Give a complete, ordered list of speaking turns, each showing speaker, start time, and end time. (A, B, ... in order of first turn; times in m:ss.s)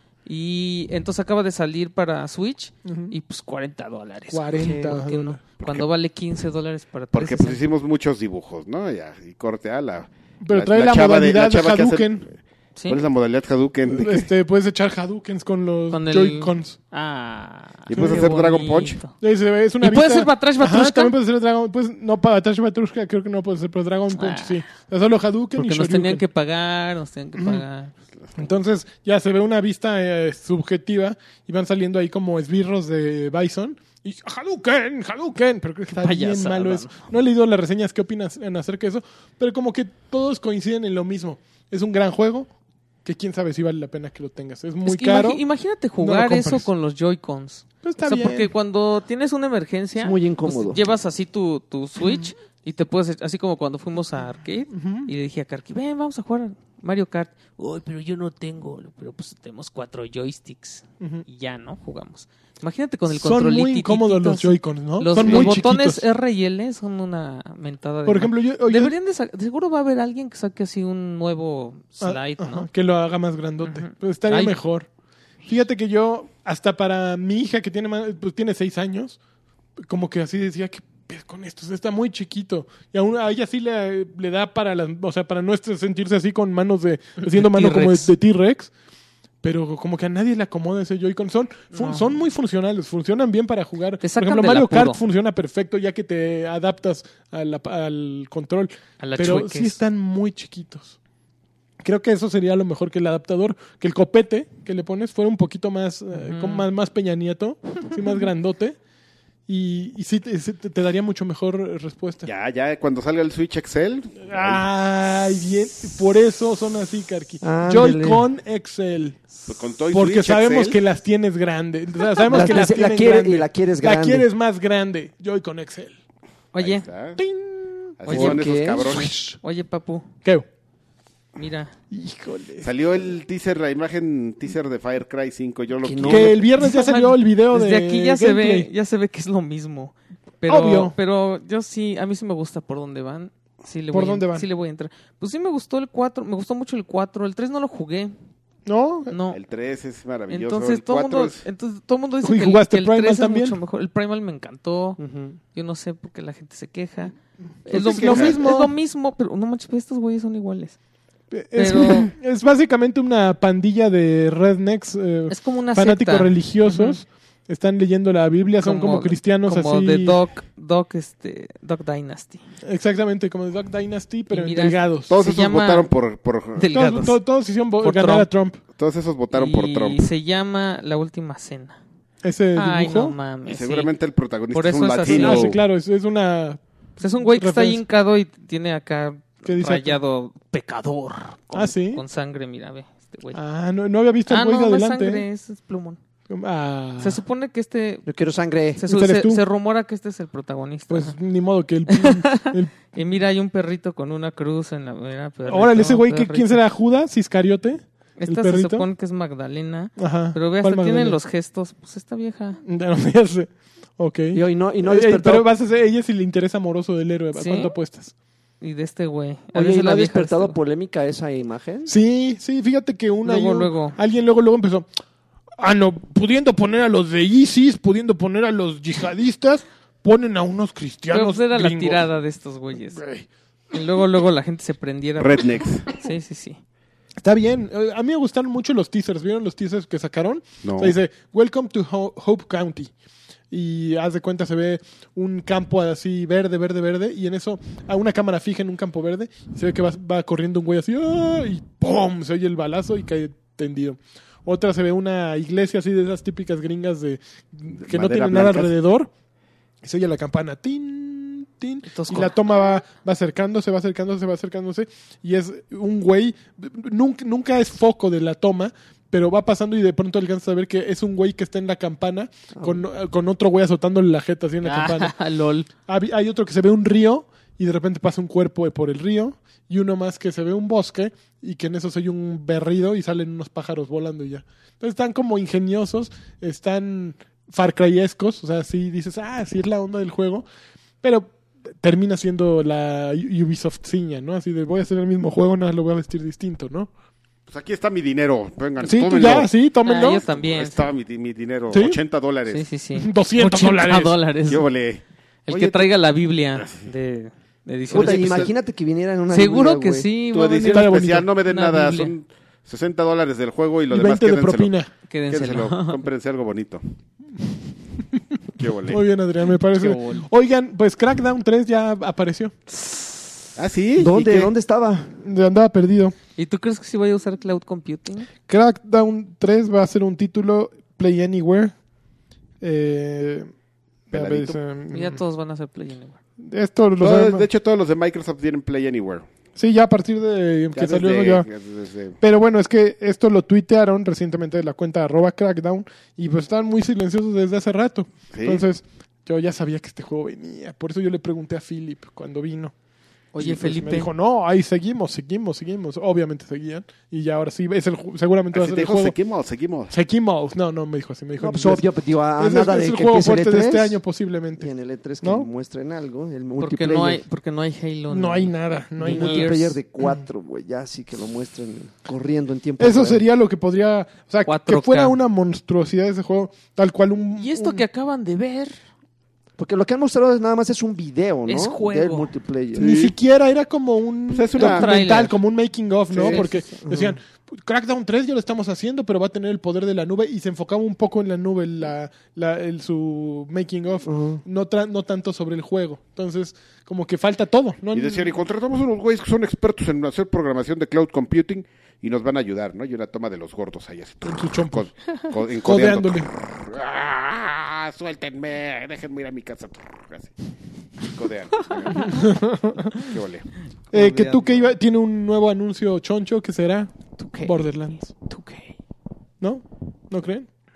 0:00.2-0:07.6 A
0:02.9-0:03.1 B
0:04.3-0:05.4 B
0:05.6-0:05.9 C
0:07.1-0:12.4 C
0:10.4-0:12.2 B
0:12.9-0:14.3 C
0:13.9-0:16.8 B
0:15.9-0:19.1 A
0:17.9-0:19.0 C
0:17.9-0:18.3 B
0:19.2-0:26.2 B
0:19.8-0:21.1 A
0:24.1-0:24.6 A
0:25.6-0:27.9 A
0:27.4-0:27.6 B
0:28.2-0:28.6 C
0:28.4-0:42.5 B
0:35.9-0:37.1 A
0:43.0-0:45.4 B
0:44.8-1:12.7 A
0:46.0-0:46.7 B
0:47.8-0:48.5 B
0:50.0-0:50.8 D
0:54.7-0:55.1 B
1:03.1-1:06.0 B
1:05.2-1:05.5 D
1:08.1-1:08.9 B
1:12.0-1:14.9 B
1:13.6-1:14.6 A
1:15.4-1:19.2 B
1:19.9-1:28.7 B
1:27.2-1:28.1 A
1:29.4-1:41.0 B
1:31.7-1:32.1 A
1:34.0-1:35.0 A
1:39.0-1:39.8 A
1:41.8-1:48.8 B
1:46.1-1:46.7 A
1:49.5-1:52.3 B
1:52.2-1:54.6 C
1:54.2-1:59.3 B
1:57.4-1:58.2 D
1:59.5-2:00.8 C
1:59.9-2:06.0 B
2:02.2-2:04.3 D
2:06.5-2:06.9 A
2:06.6-2:07.2 C
2:07.2-2:08.2 B
2:08.0-2:09.2 C
2:08.1-2:10.1 A
2:08.1-2:09.0 D
2:08.8-2:09.4 B
2:11.4-2:11.7 A
2:11.9-2:12.7 B
2:12.6-2:16.4 C
2:15.8-2:16.4 D
2:16.0-2:18.7 B
2:16.6-2:28.1 A
2:20.5-2:20.9 B
2:23.9-2:24.5 B
2:28.6-2:29.1 B
2:29.1-2:29.4 A
2:29.3-2:31.4 C
2:30.3-2:35.0 A
2:32.2-2:33.6 B
2:35.0-2:35.4 D
2:35.5-2:37.1 A
2:37.6-2:40.8 A
2:37.7-2:38.7 B
2:37.7-2:38.4 C
2:41.3-2:50.2 B
2:41.6-2:42.1 A
2:45.3-2:47.0 A
2:48.6-2:52.4 A
2:52.6-2:55.1 B
2:54.3-2:55.9 A
2:55.1-2:56.7 C
2:56.6-2:57.2 A
2:56.7-2:58.6 B
2:57.8-2:58.3 A
2:58.8-3:00.1 C
2:59.3-3:01.8 A
3:02.2-3:03.1 B
3:02.6-3:03.9 A
3:03.4-3:05.6 C
3:04.5-3:05.6 A
3:05.1-3:06.6 B
3:07.0-3:13.4 A
3:07.2-3:07.8 B
3:09.4-3:10.0 B
3:11.5-3:12.0 B
3:13.4-3:15.2 B
3:14.2-3:16.0 A
3:16.3-3:17.2 B
3:17.0-3:18.0 A
3:18.1-3:18.8 D
3:18.8-3:21.2 A
3:18.9-3:19.4 B
3:20.9-3:22.8 B
3:21.9-3:26.6 A
3:25.5-3:28.9 B
3:28.2-3:32.6 A
3:30.0-3:31.2 B
3:32.6-3:38.1 B
3:34.3-3:35.5 D
3:37.4-3:37.7 A
3:38.6-3:40.6 A
3:39.5-3:41.9 D
3:41.9-3:44.9 B
3:43.2-3:44.0 A
3:45.6-3:52.1 B
3:51.1-3:53.0 A
3:52.9-3:53.2 B
3:53.7-3:56.6 A
3:55.2-3:56.0 C
3:57.2-4:02.9 B
4:00.6-4:01.0 C
4:03.5-4:19.1 B
4:17.7-4:18.7 C
4:19.8-4:35.1 B
4:21.8-4:22.4 A
4:32.5-4:32.8 D
4:34.6-4:35.7 A
4:35.9-4:50.4 B
4:51.0-4:56.9 B
4:57.5-4:59.5 C
4:58.8-5:00.2 B
4:59.8-5:00.9 A
5:00.2-5:02.6 C
5:01.7-5:02.0 B
5:02.5-5:04.6 A
5:03.0-5:04.1 B
5:04.5-5:05.9 C
5:05.5-5:08.5 A
5:06.6-5:06.9 C
5:07.9-5:08.5 C
5:07.9-5:10.1 D
5:09.3-5:12.1 A
5:10.3-5:14.7 C
5:10.7-5:11.3 B
5:13.9-5:14.9 B
5:15.1-5:16.0 A
5:15.3-5:16.8 C
5:18.6-5:19.0 C
5:18.9-5:22.6 B
5:19.7-5:20.2 A
5:23.6-5:24.5 C
5:24.0-5:25.2 D
5:25.2-5:26.2 B
5:26.4-5:28.3 A
5:28.5-5:31.7 B
5:32.6-5:33.5 B
5:34.1-5:35.2 B
5:34.1-5:34.6 C
5:34.9-5:36.2 A
5:36.4-5:37.4 B
5:37.0-5:39.2 C
5:39.6-5:41.4 B
5:40.7-5:42.2 C
5:42.2-5:52.7 B
5:48.3-5:48.6 C
5:53.3-5:54.1 A
5:53.4-5:59.1 B
5:58.5-5:59.9 C
5:59.9-6:01.9 B
6:01.4-6:04.0 D
6:02.4-6:04.7 B
6:04.6-6:07.2 D
6:05.2-6:05.5 B
6:06.6-6:09.8 A
6:08.1-6:09.5 B
6:09.0-6:13.2 D
6:12.8-6:17.8 B
6:14.4-6:15.2 A
6:17.4-6:18.8 A
6:19.6-6:22.9 D
6:21.5-6:22.3 A
6:22.8-6:23.2 C
6:22.8-6:38.3 B
6:24.3-6:24.9 C
6:24.5-6:25.4 A
6:26.1-6:27.2 D
6:26.2-6:26.7 A
6:34.0-6:34.4 D
6:37.9-6:50.3 C
6:44.2-6:44.9 B
6:45.6-6:46.3 B
6:51.0-6:52.4 C
6:51.9-6:52.3 A
6:52.1-6:52.9 B
6:52.9-6:53.5 C
6:53.9-6:54.7 A
6:53.9-6:56.9 B
6:57.2-6:58.7 A
6:57.4-6:58.1 B
6:59.4-7:00.5 B